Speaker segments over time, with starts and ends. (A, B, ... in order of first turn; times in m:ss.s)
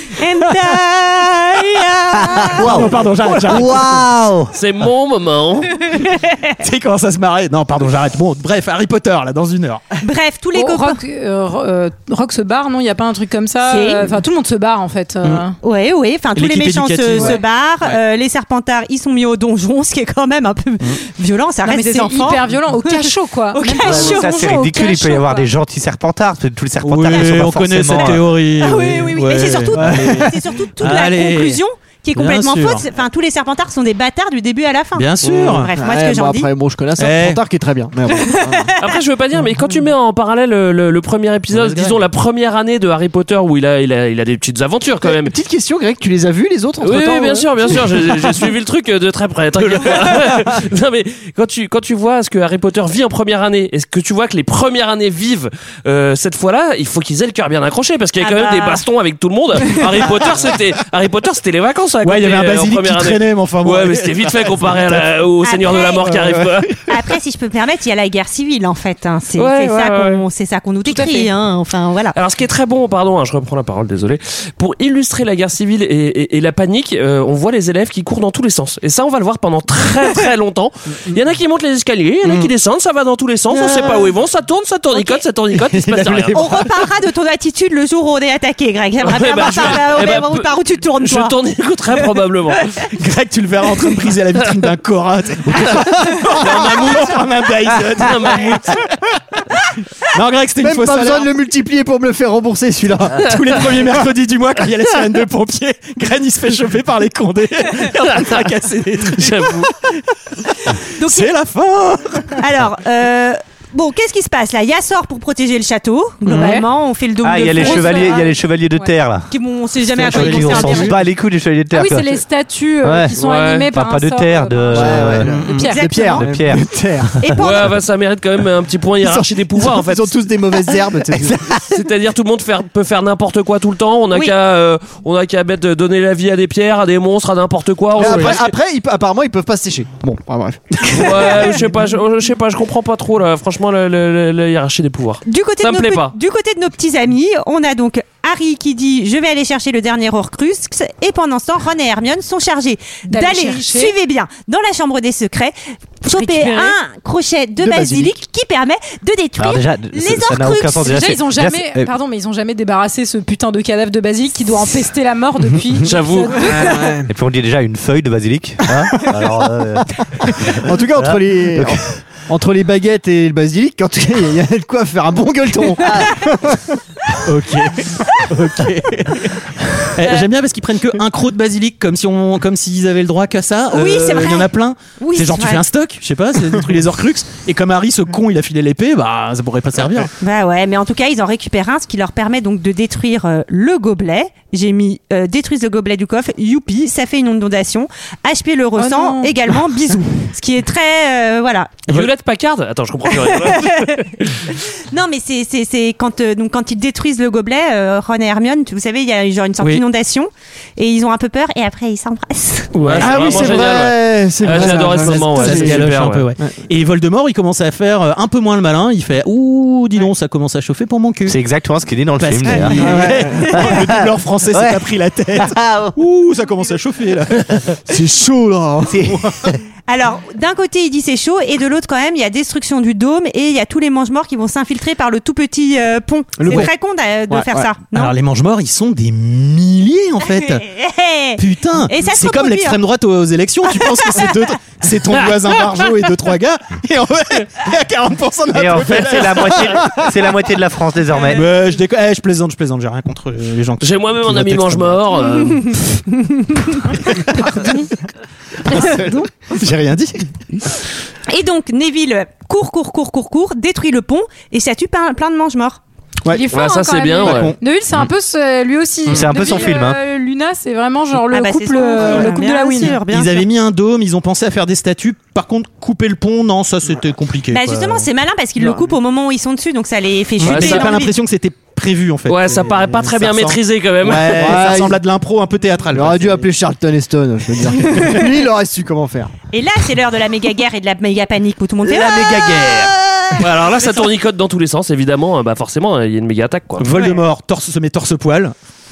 0:00.2-0:02.8 A
0:02.1-0:04.5 B
0:02.5-0:03.8 C
0:04.5-0:05.7 D
0:06.0-0:06.4 A
0:06.6-0:09.8 C
0:10.0-0:11.0 A
0:10.5-0:15.6 E
0:13.6-0:14.1 A
0:15.6-0:24.5 A
0:16.3-0:18.0 C
0:17.1-0:17.4 E
0:21.6-0:25.5 E
0:23.8-0:28.3 B
0:26.8-0:31.6 C
0:27.9-0:36.5 A
0:29.8-0:30.1 B
0:32.2-0:32.8 C
0:35.0-0:35.7 C
0:35.7-0:38.7 F
0:37.0-0:37.4 C
0:38.2-0:38.7 A
0:38.8-0:45.3 D
0:41.5-0:42.0 C
0:45.0-0:48.5 F
0:46.8-1:06.8 D
0:49.8-0:50.4 F
0:58.2-0:58.8 A
0:59.7-1:00.1 A
1:02.0-1:05.0 C
1:05.4-1:06.2 A
1:06.2-1:06.5 C
1:06.9-1:12.1 A
1:09.4-1:10.2 D
1:10.8-1:11.3 E
1:12.1-1:26.4 D
1:23.5-1:24.0 F
1:23.8-1:24.1 A
1:24.9-1:25.2 A
1:25.7-1:26.2 F
1:26.3-1:31.3 A
1:29.0-1:32.8 D
1:32.9-1:38.8 C
1:35.5-1:38.8 D
1:35.8-1:36.6 F
1:40.1-1:41.3 C
1:40.6-1:43.3 F
1:43.2-1:50.0 C
1:48.0-1:48.5 D
1:49.1-1:49.7 D
1:50.7-1:52.4 C
1:51.0-1:51.3 A
1:52.4-1:58.4 A
1:56.3-1:56.6 E
1:57.2-1:59.3 B
1:57.6-1:58.2 E
1:59.3-2:01.0 A
2:00.0-2:00.9 C
2:00.0-2:02.2 B
2:01.7-2:05.8 E
2:02.8-2:03.2 B
2:03.2-2:03.6 D
2:03.7-2:05.3 B
2:04.7-2:07.2 F
2:04.8-2:05.7 C
2:05.6-2:06.2 A
2:06.1-2:06.7 B
2:07.2-2:07.8 A
2:07.4-2:10.2 D
2:09.0-2:11.4 F
2:11.6-2:18.5 D
2:18.0-2:21.6 F
2:20.9-2:26.1 D
2:25.2-2:41.0 A
2:33.0-2:33.9 E
2:36.1-2:36.7 E
2:37.6-2:38.1 F
2:39.4-2:41.8 B
2:40.8-2:47.0 E
2:45.8-2:46.7 D
2:46.5-2:47.1 F
2:47.1-2:51.8 B
2:48.9-2:49.2 F
2:50.4-2:56.7 F
2:55.8-2:56.2 B
2:57.2-2:59.3 C
2:59.9-3:10.1 C
3:03.7-3:05.6 A
3:10.2-3:21.8 A
3:18.8-3:19.3 E
3:21.9-3:24.3 D
3:23.1-3:32.7 A
3:32.7-3:33.8 C
3:32.8-3:36.3 D
3:33.0-3:36.5 F
3:34.4-3:41.4 C
3:41.3-3:46.0 B
3:42.2-3:47.8 C
3:42.5-3:42.9 A
3:42.8-3:43.5 F
3:47.9-3:49.0 F
3:48.9-3:49.6 B
3:49.0-3:49.6 C
3:49.9-3:58.1 A
3:56.4-3:56.7 F
3:57.3-3:57.6 F
3:57.9-4:00.6 C
4:00.2-4:02.8 A
4:01.4-4:10.1 C
4:03.7-4:04.3 A
4:08.5-4:11.4 B
4:11.3-4:15.1 C
4:13.8-4:15.7 D
4:17.0-4:17.8 C
4:18.7-4:20.2 C
4:21.3-4:25.8 A
4:26.3-4:32.9 E
4:26.5-4:27.5 D
4:27.2-4:27.6 C
4:29.1-4:30.0 B
4:31.3-4:33.5 A
4:32.8-4:38.1 C
4:37.5-4:41.1 A
4:40.4-4:46.5 C
4:40.4-4:40.9 D
4:42.3-4:44.6 D
4:44.3-4:45.0 F
4:45.9-4:49.3 F
4:49.5-4:52.3 A
4:51.9-4:54.1 C
4:53.4-4:56.9 D
4:56.8-4:58.5 C